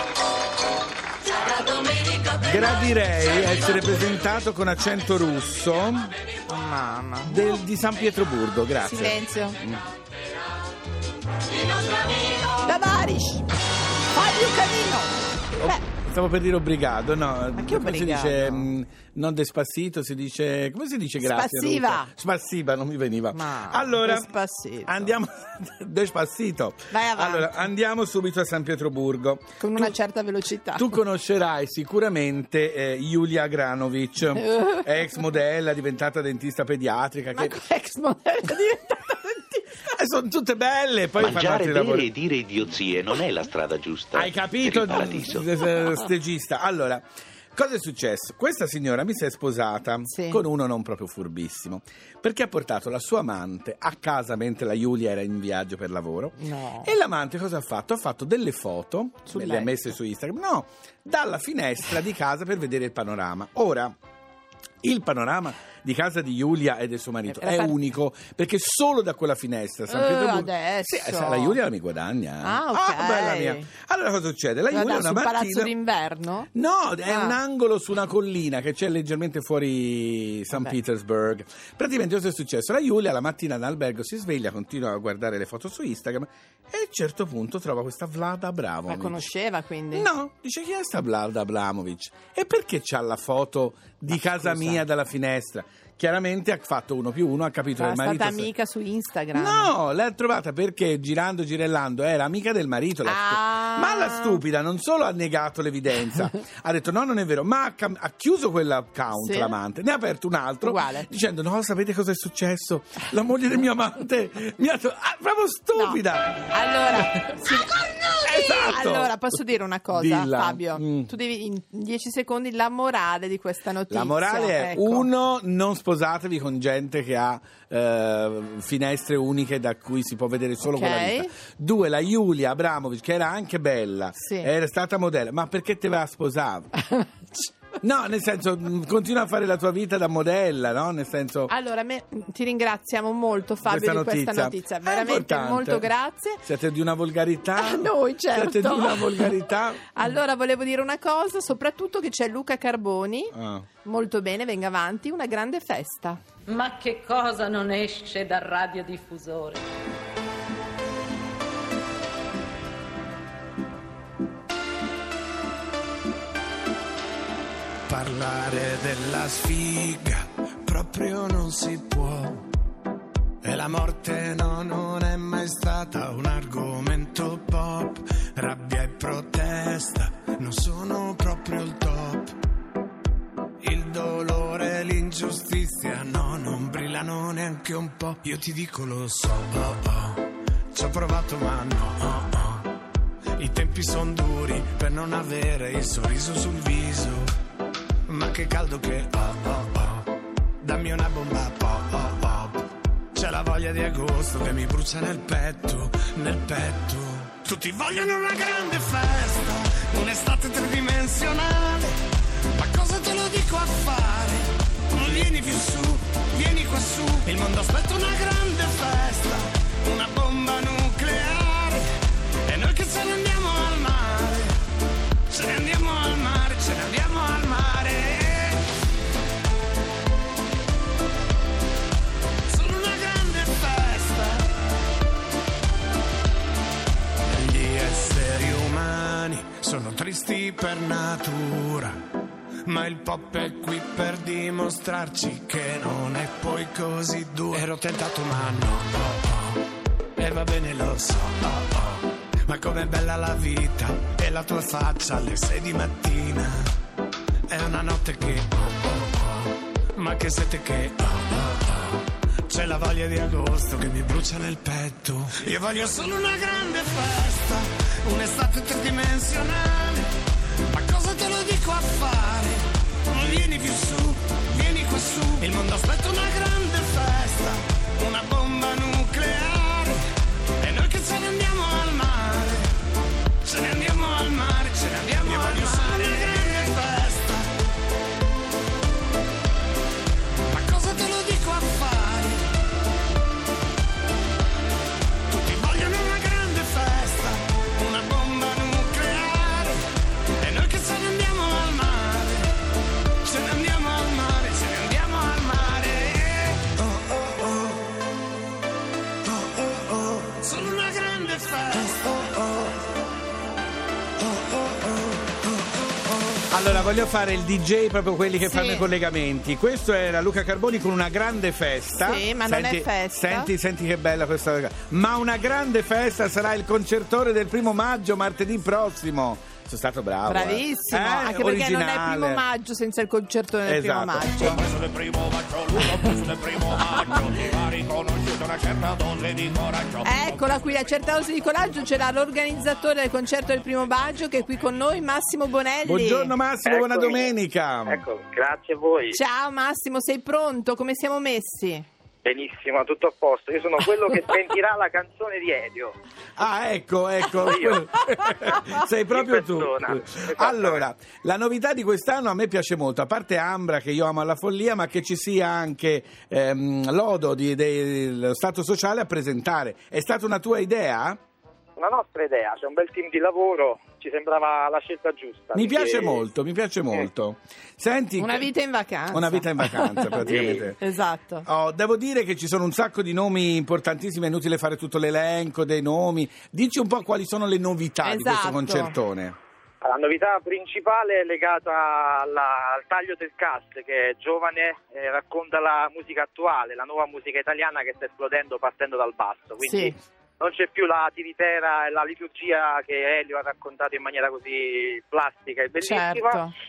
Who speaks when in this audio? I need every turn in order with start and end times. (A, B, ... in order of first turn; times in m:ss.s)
0:02.2-0:06.1 A
0:06.5-0:07.4 B
0:07.2-0:09.8 A
0:08.8-0:09.6 B
0:12.5-0:13.4 B
0:14.1-0:15.8 B
0:15.6-0:24.3 A
0:17.6-0:18.7 B
0:21.2-0:22.1 B
0:23.3-0:25.2 B
0:24.9-0:30.0 A
0:26.9-0:27.7 B
0:29.6-0:30.9 B
0:30.8-0:37.6 A
0:34.4-0:34.9 B
0:37.3-0:39.7 B
0:39.9-0:42.1 A
0:41.2-0:45.5 C
0:44.1-1:03.9 A
0:50.1-0:50.4 B
0:56.4-0:56.9 B
0:59.3-0:59.9 B
1:04.8-1:15.7 A
1:07.3-1:07.8 B
1:09.9-1:11.6 B
1:12.4-1:13.7 B
1:14.7-1:16.5 B
1:16.5-1:29.3 A
1:17.0-1:17.4 B
1:28.9-1:30.1 B
1:29.9-1:38.5 A
1:34.1-1:34.8 B
1:37.8-1:39.7 B
1:39.3-1:57.4 A
1:43.0-1:44.4 B
1:49.1-1:49.6 B
1:50.6-1:51.1 B
1:55.7-2:05.1 B
1:58.2-1:59.2 A
1:59.9-2:01.1 A
2:03.9-2:16.7 A
2:10.6-2:11.3 B
2:14.2-2:14.5 B
2:17.8-2:21.5 A
2:21.5-2:26.4 B
2:23.6-2:29.8 A
2:27.6-2:36.2 B
2:33.3-2:33.7 A
2:36.5-2:39.6 D
2:47.9-2:52.5 E
2:53.4-3:02.4 E
3:03.6-3:12.7 E
3:13.4-3:17.3 E
3:18.1-3:32.0 E
3:32.5-3:41.9 E
3:42.4-3:44.6 E
3:45.3-3:48.7 E
3:52.5-3:54.5 E
3:57.3-4:02.0 E
4:02.6-4:09.6 E
4:10.2-4:16.8 E
4:17.5-4:30.1 E
4:30.7-4:40.0 E
4:40.6-4:42.7 E
4:43.4-4:47.5 E
4:45.2-4:46.7 D
4:50.4-4:52.5 E
4:55.3-4:59.8 E
5:00.4-5:02.5 E
5:03.2-5:07.2 E
5:09.6-5:12.3 E
5:16.5-5:32.4 A
5:18.4-5:18.9 B
5:22.0-5:23.5 B
5:30.3-5:34.6 B
5:33.7-5:34.6 A
5:34.6-5:40.5 F
5:40.0-5:46.4 B
5:45.8-5:48.0 A
5:46.6-5:47.4 G
5:47.9-5:49.2 G
5:49.1-5:51.8 B
5:52.2-5:56.0 G
5:56.4-6:11.2 A
5:57.3-5:57.9 G
5:59.1-6:00.8 G
6:11.8-6:16.3 G
6:15.5-6:18.5 A
6:18.2-6:21.5 B
6:19.1-6:20.8 A
6:20.2-6:20.6 G
6:21.4-6:29.4 A
6:28.0-6:29.0 B
6:29.8-6:46.4 G
6:39.6-6:40.0 B
6:45.8-6:46.5 B